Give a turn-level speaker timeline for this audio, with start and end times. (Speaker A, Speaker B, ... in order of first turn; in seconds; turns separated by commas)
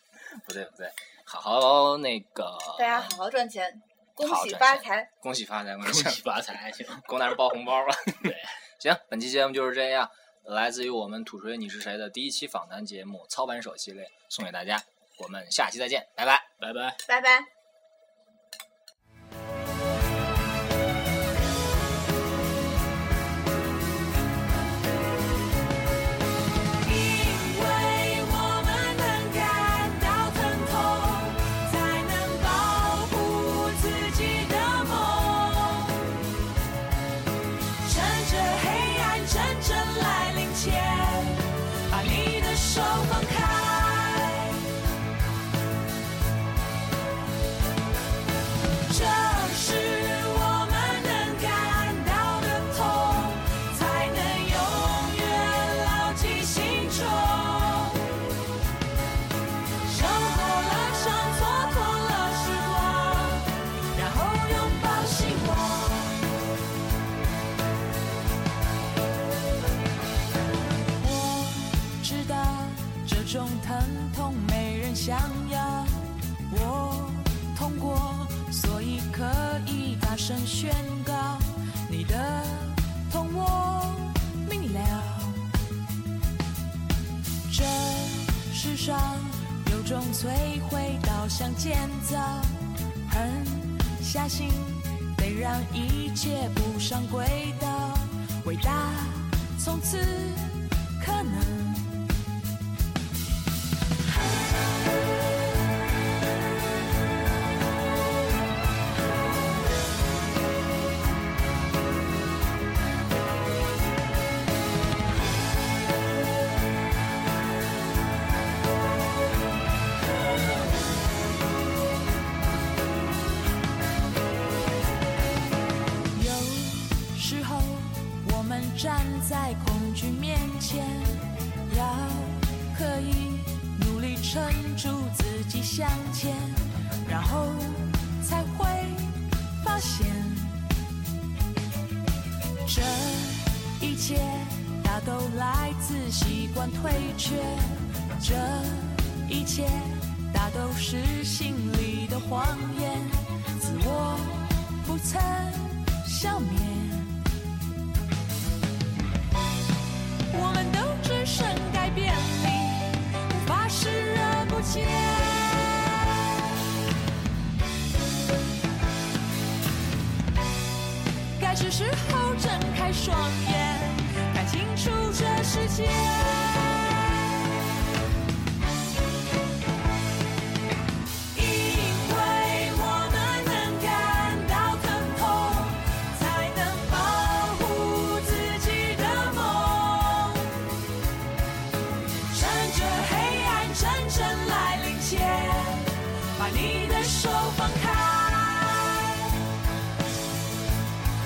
Speaker A: 0.2-3.2, Speaker B: 2.8-5.1, Speaker A: 4.2-6.2, Speaker C: 5.8-7.1, Speaker A: 7.1-16.5, Speaker C: 8.2-8.5, Speaker C: 16.6-17.0, Speaker B: 17.1-17.5, Speaker D: 26.8-36.1, Speaker D: 37.8-44.7, Speaker D: 48.9-58.2, Speaker D: 59.8-66.2, Speaker D: 71.0-85.5, Speaker D: 87.5-102.0, Speaker D: 126.1-140.7, Speaker D: 142.6-157.2, Speaker D: 160.3-166.0, Speaker D: 171.3-177.1, Speaker D: 181.3-190.6, Speaker D: 192.3-199.3